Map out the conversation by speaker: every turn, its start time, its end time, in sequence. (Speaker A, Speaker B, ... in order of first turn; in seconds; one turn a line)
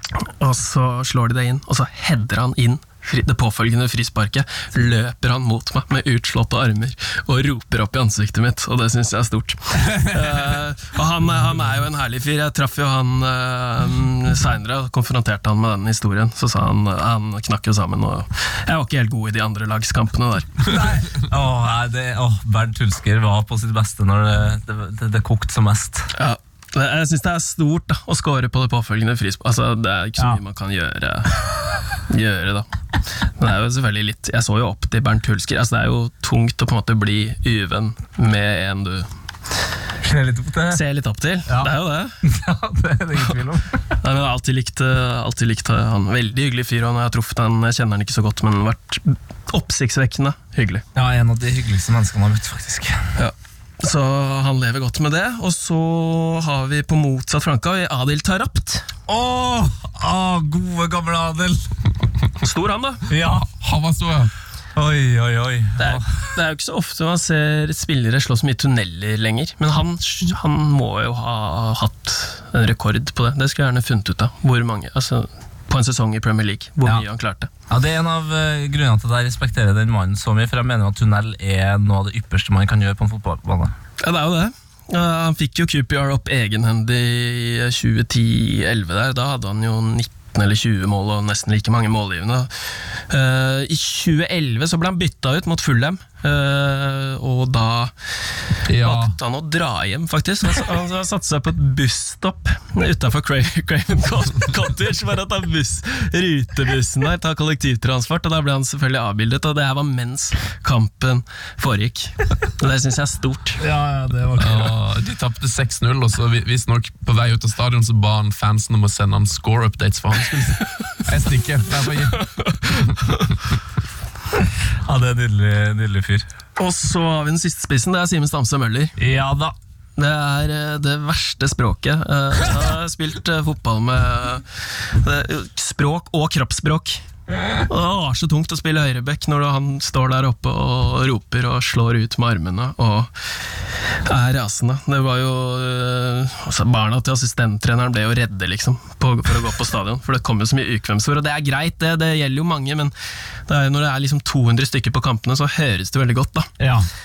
Speaker A: 0.1-20.8
Speaker B: 20.6-26.1
Speaker A: 26.1-31.4
Speaker A: 32.0-32.7
Speaker A: 33.4-39.1
Speaker B: 40.0-40.8
Speaker A: 40.7-42.1
Speaker B: 41.5-41.7
Speaker B: 42.2-43.9
Speaker A: 44.0-50.8
Speaker B: 50.9-53.1
Speaker A: 53.2-58.8
Speaker B: 59.1-61.7
Speaker A: 62.4-63.0
Speaker B: 63.1-63.5
Speaker C: 63.2-64.3
Speaker B: 64.7-66.1
Speaker A: 65.8-77.5
Speaker B: 77.7-83.7
Speaker A: 84.0-92.5
Speaker A: 93.1-97.9
Speaker C: 98.7-99.1
Speaker A: 98.7-113.6
Speaker B: 113.6-114.7
Speaker C: 114.2-123.0
Speaker B: 124.8-126.2
Speaker A: 126.6-128.9
Speaker C: 129.0-129.5
Speaker A: 130.0-137.0
Speaker A: 137.7-143.1
Speaker A: 143.9-152.9
Speaker A: 153.5-156.5
Speaker B: 156.6-156.9